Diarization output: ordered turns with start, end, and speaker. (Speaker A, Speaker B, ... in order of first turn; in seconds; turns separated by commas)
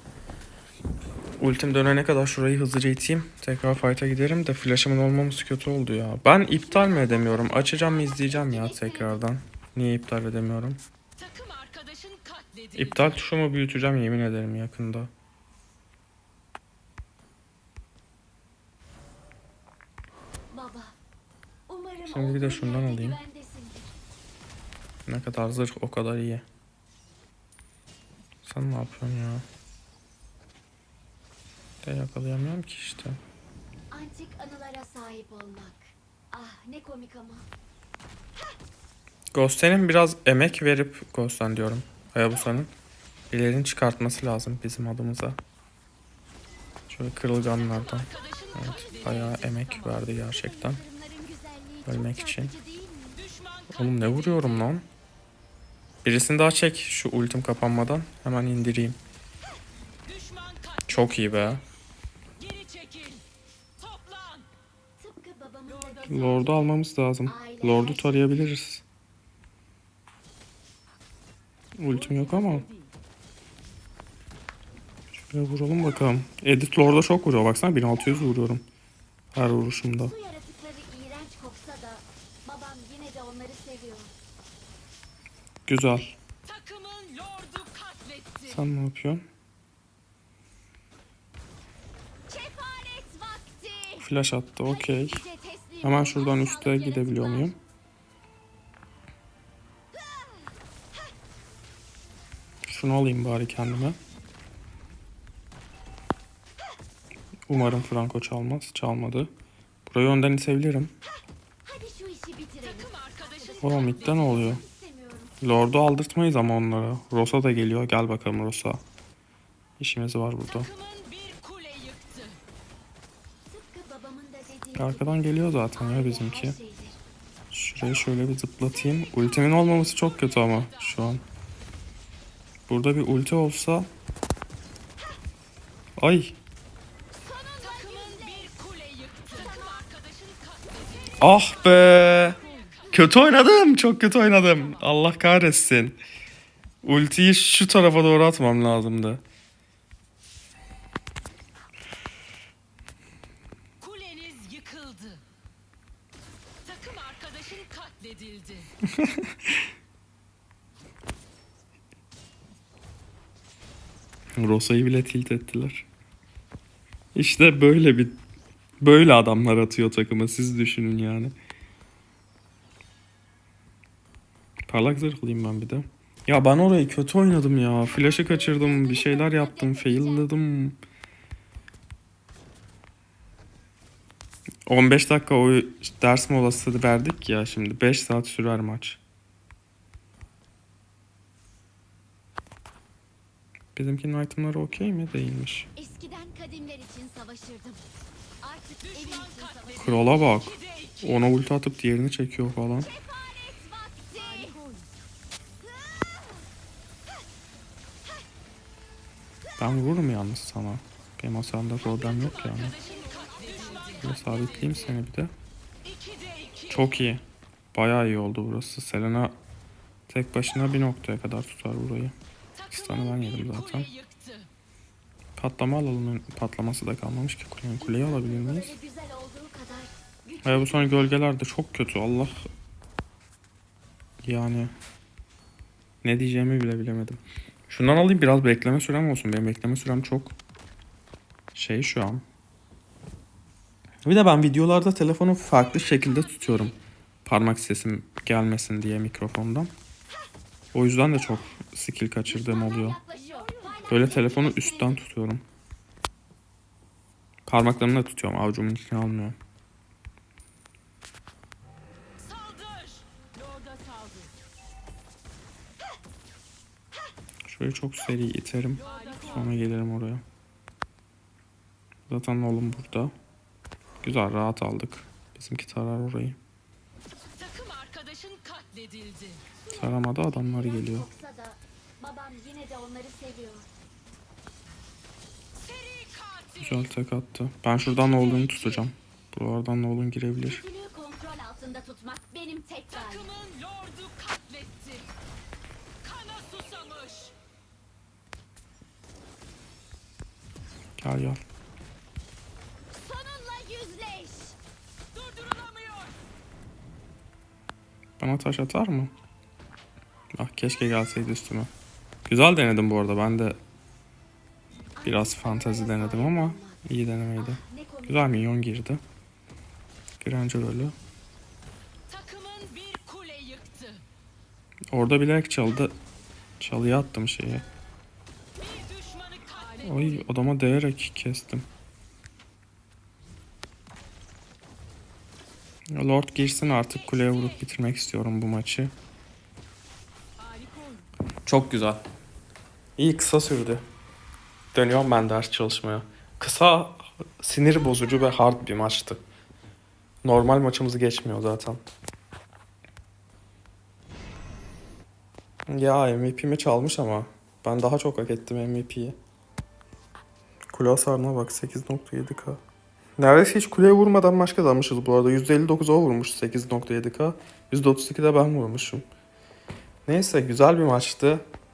Speaker A: 1.4-10.8, Speaker B: 6.4-9.2, Speaker A: 12.7-15.1, Speaker B: 20.5-21.0, Speaker B: 21.7-23.9, Speaker A: 22.1-23.2, Speaker A: 25.1-26.4, Speaker A: 28.4-29.4, Speaker A: 31.8-33.2, Speaker B: 33.9-37.5, Speaker A: 39.3-42.7, Speaker A: 43.3-45.4, Speaker A: 46.9-50.8, Speaker B: 50.0-53.3, Speaker A: 51.9-52.5, Speaker A: 53.7-54.9, Speaker A: 56.0-59.0, Speaker A: 60.9-61.6, Speaker B: 65.0-68.5, Speaker A: 66.0-68.8, Speaker A: 71.8-72.7, Speaker B: 71.9-72.8, Speaker A: 75.1-78.6, Speaker A: 79.3-80.1, Speaker B: 80.0-84.1, Speaker A: 85.7-86.2, Speaker C: 86.8-88.0, Speaker A: 88.4-89.2, Speaker B: 92.3-94.1, Speaker A: 94.0-95.2, Speaker B: 94.6-97.5, Speaker A: 95.8-97.6, Speaker A: 102.7-104.0, Speaker A: 107.5-109.3, Speaker A: 109.9-110.9, Speaker B: 111.6-115.4, Speaker A: 113.6-114.6, Speaker A: 115.4-118.8, Speaker A: 119.8-120.7, Speaker C: 121.3-122.2, Speaker B: 123.5-127.0, Speaker A: 124.8-126.6, Speaker A: 127.5-131.2, Speaker A: 132.7-133.9, Speaker A: 136.0-136.3, Speaker B: 137.3-140.1, Speaker A: 141.2-142.4, Speaker A: 142.9-146.0, Speaker A: 146.8-149.2, Speaker C: 153.8-155.2, Speaker C: 156.9-158.5, Speaker A: 158.8-159.5, Speaker A: 164.4-165.9, Speaker A: 167.1-168.2, Speaker A: 168.8-171.3, Speaker A: 174.7-180.8, Speaker B: 177.8-180.3, Speaker A: 184.7-189.0, Speaker A: 193.7-195.7, Speaker B: 195.8-197.8, Speaker B: 198.4-200.2, Speaker A: 199.8-202.9, Speaker B: 202.8-204.6, Speaker B: 205.8-206.3, Speaker A: 209.6-212.8, Speaker B: 212.2-214.8, Speaker A: 214.0-215.3, Speaker A: 216.7-217.2, Speaker A: 217.7-219.3, Speaker A: 220.1-222.1, Speaker A: 222.7-223.9, Speaker A: 225.4-228.7, Speaker B: 227.8-231.1, Speaker A: 230.4-232.4, Speaker A: 234.2-234.7, Speaker A: 236.0-240.3, Speaker A: 241.5-242.2, Speaker A: 244.0-249.7, Speaker A: 250.7-253.0, Speaker B: 252.3-255.0, Speaker A: 253.9-255.4, Speaker A: 257.5-259.4, Speaker A: 267.4-270.2, Speaker B: 268.9-269.2, Speaker A: 272.1-273.1, Speaker A: 274.0-276.4, Speaker C: 277.9-279.2, Speaker B: 279.6-283.7, Speaker A: 279.7-281.1, Speaker A: 286.6-290.6, Speaker B: 290.4-293.4, Speaker C: 293.4-294.9, Speaker C: 296.3-297.2, Speaker A: 301.0-301.4, Speaker B: 302.9-304.6, Speaker A: 308.2-309.1, Speaker A: 310.4-311.7, Speaker A: 312.3-313.6, Speaker B: 315.0-316.8, Speaker A: 315.0-319.0, Speaker B: 317.4-318.4, Speaker A: 320.2-320.9, Speaker C: 322.6-323.5, Speaker A: 324.9-325.9, Speaker A: 326.6-327.6, Speaker A: 329.8-331.7, Speaker A: 335.9-338.9, Speaker A: 341.4-342.0, Speaker A: 343.0-343.8, Speaker A: 344.7-349.2, Speaker A: 350.2-351.8, Speaker A: 355.7-359.1, Speaker A: 360.7-362.6, Speaker A: 363.2-369.0, Speaker A: 370.1-371.4